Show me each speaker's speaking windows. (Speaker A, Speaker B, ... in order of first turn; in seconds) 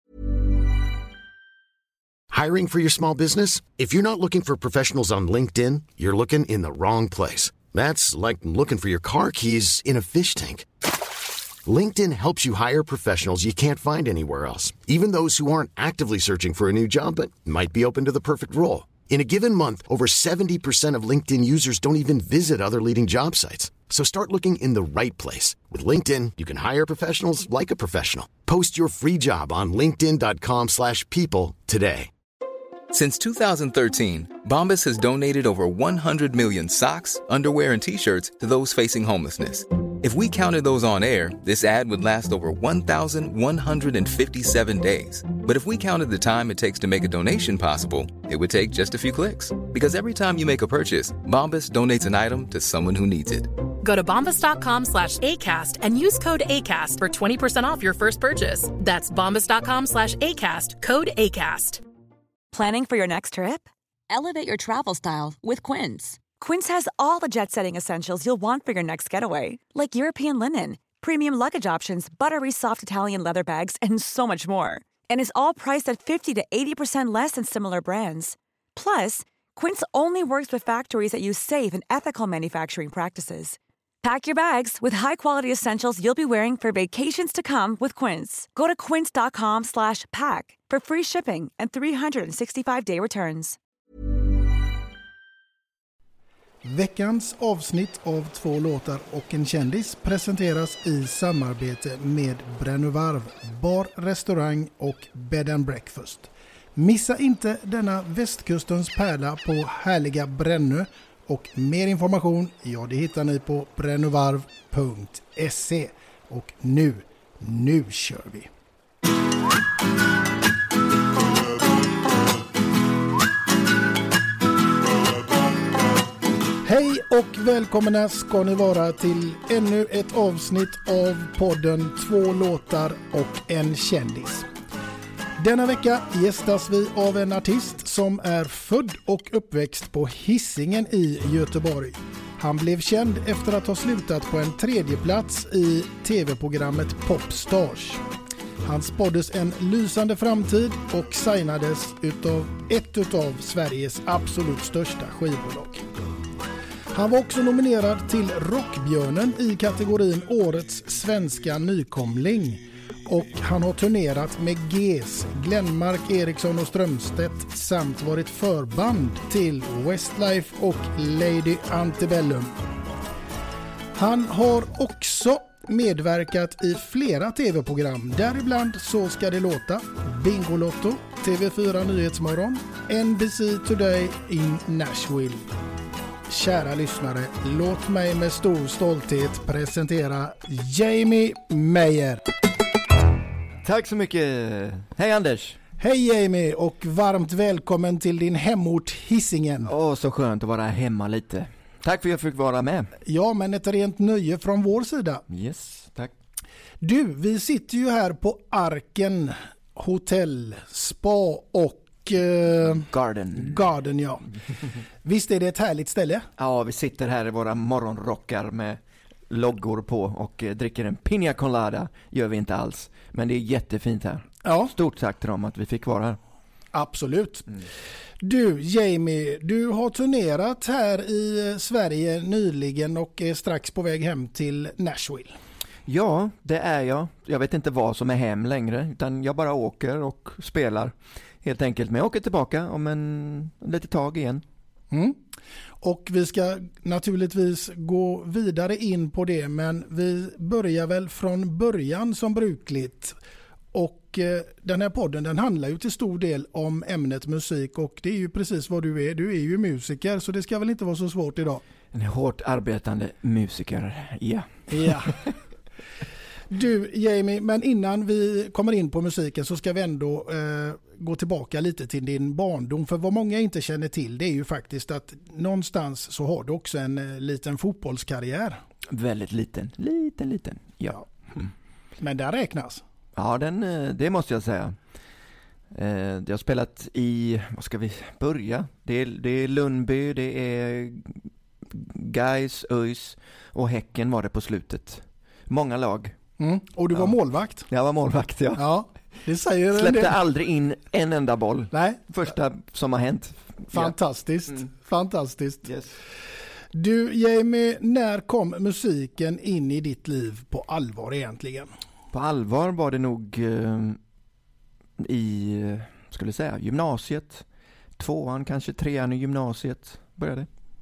Speaker A: 2.3-10.7, 11.7-32.1
Speaker B: 32.9-53.5
Speaker C: 53.8-61.8
Speaker D: 62.5-93.6
Speaker E: 96.6-118.5, 126.6-134.5, 135.4-148.0, 148.6-155.8, 156.9-172.5, 173.9-185.5, 186.3-192.2, 195.8-199.7, 203.0-205.2, 206.8-214.3, 215.0-216.2, 224.4-224.7, 226.7-227.5, 228.2-235.3, 244.9-245.2, 245.8-253.2, 253.7-261.6, 264.7-265.1, 266.5-278.6, 282.0-282.8, 296.4-297.7, 298.6-300.2, 301.7-302.0, 303.7-305.7, 306.7-311.7
Speaker F: 193.6-195.6, 199.6-202.9, 205.3-206.1, 212.7-213.6, 216.4-226.2, 235.9-244.4, 261.9-265.3, 278.9-281.5, 283.1-284.8, 285.7-296.1, 297.7-298.6, 299.7-303.9, 305.6-305.9, 312.1-314.0, 315.0-317.4, 318.0-320.5